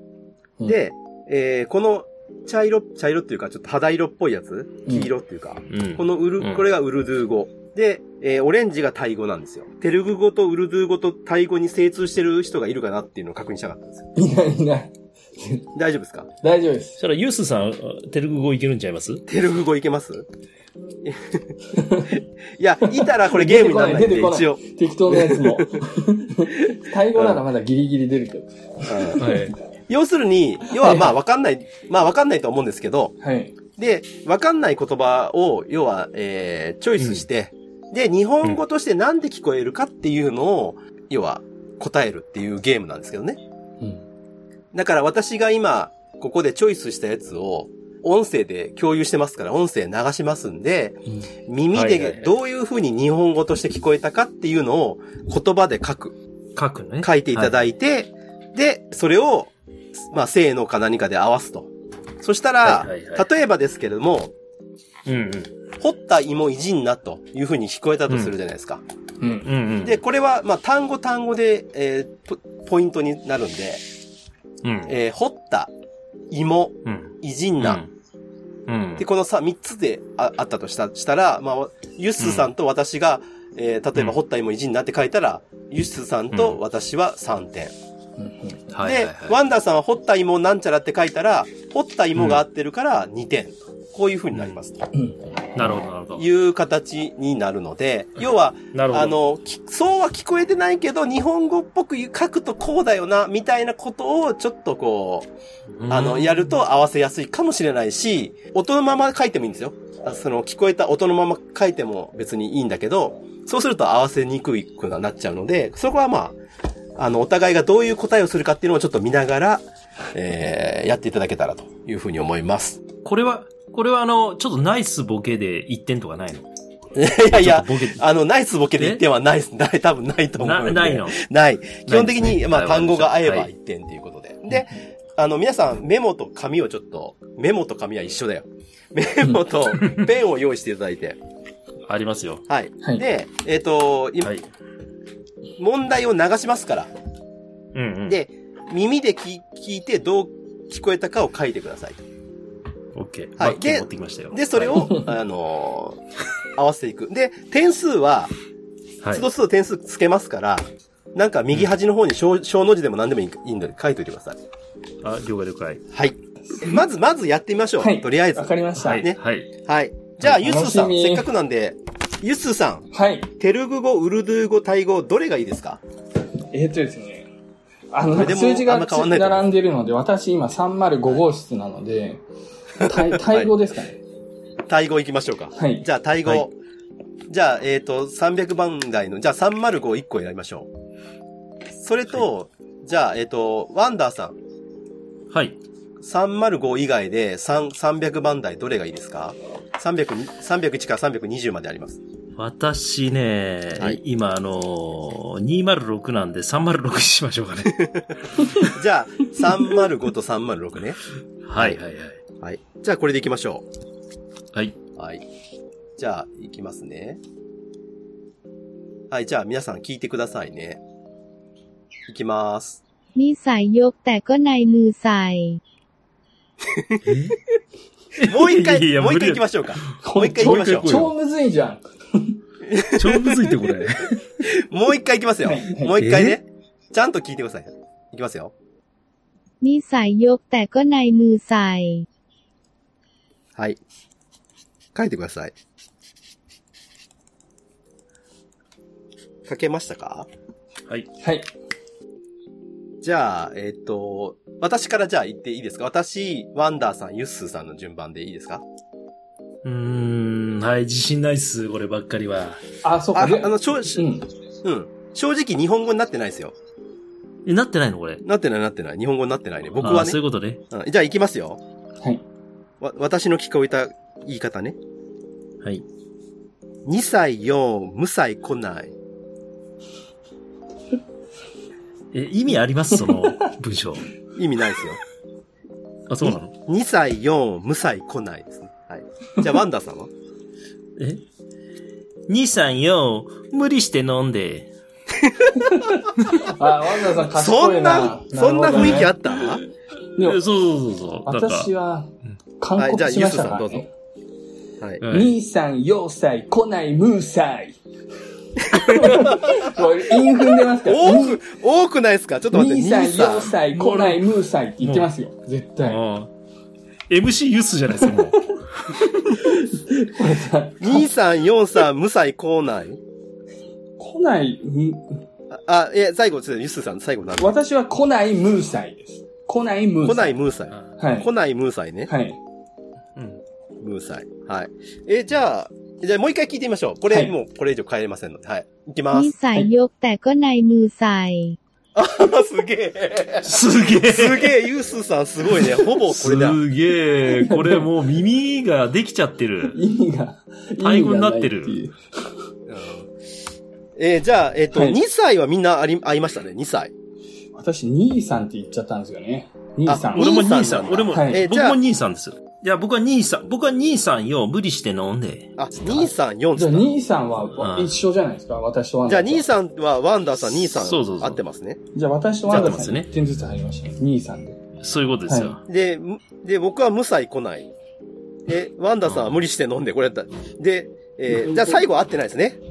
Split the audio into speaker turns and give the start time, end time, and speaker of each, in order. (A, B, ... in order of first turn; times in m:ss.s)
0:00.6-0:14.1 A
0:05.7-0:06.7 B
0:14.2-0:15.7 C
0:15.7-0:16.3 A
0:16.4-0:17.0 C
0:17.0-0:19.2 B
0:19.3-0:20.2 A
0:21.0-0:21.5 A
0:21.7-0:22.2 C
0:22.1-0:25.7 A
0:22.8-0:29.4 C
0:27.1-0:27.4 A
0:28.8-0:29.2 A
0:29.2-0:29.5 B
0:29.9-0:33.2 A
0:30.7-0:31.1 C
0:33.2-0:33.5 C
0:33.8-0:43.4 A
0:37.0-0:37.2 B
0:44.7-0:56.2 A
0:51.7-0:52.3 B
0:56.6-0:57.6 B
0:57.0-1:04.3 A
1:02.6-1:03.2 B
1:05.0-1:05.5 B
1:05.8-1:08.8 A
1:08.1-1:08.3 B
1:09.2-1:09.5 C
1:09.4-1:10.0 B
1:09.8-1:13.8 A
1:14.6-1:14.9 B
1:14.8-1:15.7 A
1:16.3-1:17.8 A
1:16.8-1:17.9 B
1:18.7-1:19.0 B
1:19.0-1:27.7 A
1:22.2-1:22.5 B
1:26.3-1:26.6 B
1:28.2-1:28.6 C
1:28.7-1:29.4 B
1:28.8-1:34.9 A
1:32.2-1:32.4 B
1:34.3-1:34.6 B
1:34.9-1:35.2 C
1:35.5-1:36.3 B
1:36.1-1:45.3 A
1:38.7-1:39.2 B
1:45.8-1:46.4 B
1:45.9-1:56.4 A
1:57.0-2:02.8 A
2:03.0-2:06.5 B
2:06.9-2:21.2 A
2:07.3-2:08.0 B
2:10.4-2:11.2 B
2:11.8-2:13.5 B
2:21.9-2:22.4 B
2:22.5-2:24.3 A
2:25.6-2:26.9 A
2:27.7-2:28.2 B
2:28.1-2:32.0 A
2:32.9-2:35.0 B
2:33.4-2:36.0 A
2:36.6-2:38.3 A
2:39.1-2:44.4 A
2:45.0-2:45.8 B
2:45.9-2:52.9 A
2:46.5-2:46.8 C
2:47.8-2:49.0 C
2:48.8-2:49.5 B
2:50.3-2:51.3 C
2:52.9-2:53.3 C
2:53.4-2:55.8 A
2:56.5-2:57.3 C
2:57.9-3:02.2 C
2:58.1-2:59.5 A
3:02.8-3:04.0 C
3:02.8-3:03.5 A
3:04.7-3:06.5 A
3:05.6-3:05.9 C
3:07.3-3:10.7 A
3:11.8-3:14.4 A
3:15.3-3:15.6 B
3:16.0-3:22.0 A
3:22.4-3:27.9 B
3:28.6-3:31.0 A
3:31.4-3:32.2 B
3:32.4-3:33.6 A
3:35.0-3:35.2 A
3:36.0-3:37.2 A
3:39.1-3:40.8 A
3:42.1-3:42.8 A
3:43.2-3:45.6 D
3:46.6-3:47.0 A
3:47.0-3:47.4 B
3:48.2-3:51.1 B
3:48.2-3:51.0 A
3:50.0-3:52.4 C
3:52.6-3:53.5 A
3:52.9-3:54.4 B
3:54.4-3:58.5 A
3:55.4-3:56.0 C
3:56.0-3:56.4 B
3:59.6-4:02.0 D
4:04.9-4:05.5 A
4:09.4-4:10.3 A
4:11.2-4:11.5 C
4:13.0-4:18.6 A
4:19.6-4:22.6 B
4:22.8-4:24.3 C
4:23.1-4:24.1 A
4:24.6-4:26.5 A
4:27.4-4:28.2 B
4:28.2-4:31.6 A
4:29.8-4:30.6 B
4:32.8-4:34.8 A
4:36.8-4:38.9 A
4:42.1-4:44.1 B
4:44.3-4:45.0 A
4:46.1-4:46.5 B
4:46.2-4:50.1 A
4:51.0-4:51.2 B
4:52.3-4:54.7 B
4:55.7-4:59.1 C
4:57.3-4:59.6 A
5:00.2-5:01.7 B
5:01.2-5:03.9 C
5:02.8-5:03.9 A
5:05.0-5:05.3 B
5:05.1-5:07.8 C
5:08.7-5:11.4 C
5:08.8-5:09.6 A
5:10.8-5:13.5 A
5:12.5-5:16.0 C
5:13.7-5:14.3 B
5:14.8-5:15.1 B
5:15.9-5:16.3 B
5:17.1-5:19.0 B
5:19.3-5:21.1 C
5:20.8-5:23.0 A
5:24.0-5:25.2 C
5:25.5-5:27.6 A
5:27.4-5:30.4 C
5:30.0-5:32.1 A
5:31.0-5:31.3 C
5:32.0-5:32.4 C
5:33.2-5:33.4 B
5:33.8-5:39.3 A
5:37.1-5:37.3 C
5:39.1-5:41.6 D
5:41.9-5:46.6 A
5:43.4-5:44.6 B
5:46.0-5:49.8 B
5:47.2-5:47.9 C
5:49.7-5:52.0 C
5:50.8-5:51.8 B
5:52.7-5:53.1 A
5:54.0-5:56.9 A
5:54.7-5:55.0 C
5:57.5-6:00.3 C
5:59.8-6:01.8 A
6:00.1-6:06.0 B
6:01.1-6:01.4 C
6:05.6-6:06.9 A
6:06.5-6:09.5 C
6:07.6-6:07.9 B
6:09.1-6:11.8 A
6:10.7-6:11.4 B
6:11.9-6:14.6 C
6:12.5-6:12.8 A
6:12.5-6:13.1 B
6:14.8-6:15.6 B
6:15.3-6:15.6 C
6:15.7-6:17.7 A
6:18.5-6:22.6 A
6:19.1-6:19.3 B
6:21.3-6:21.8 C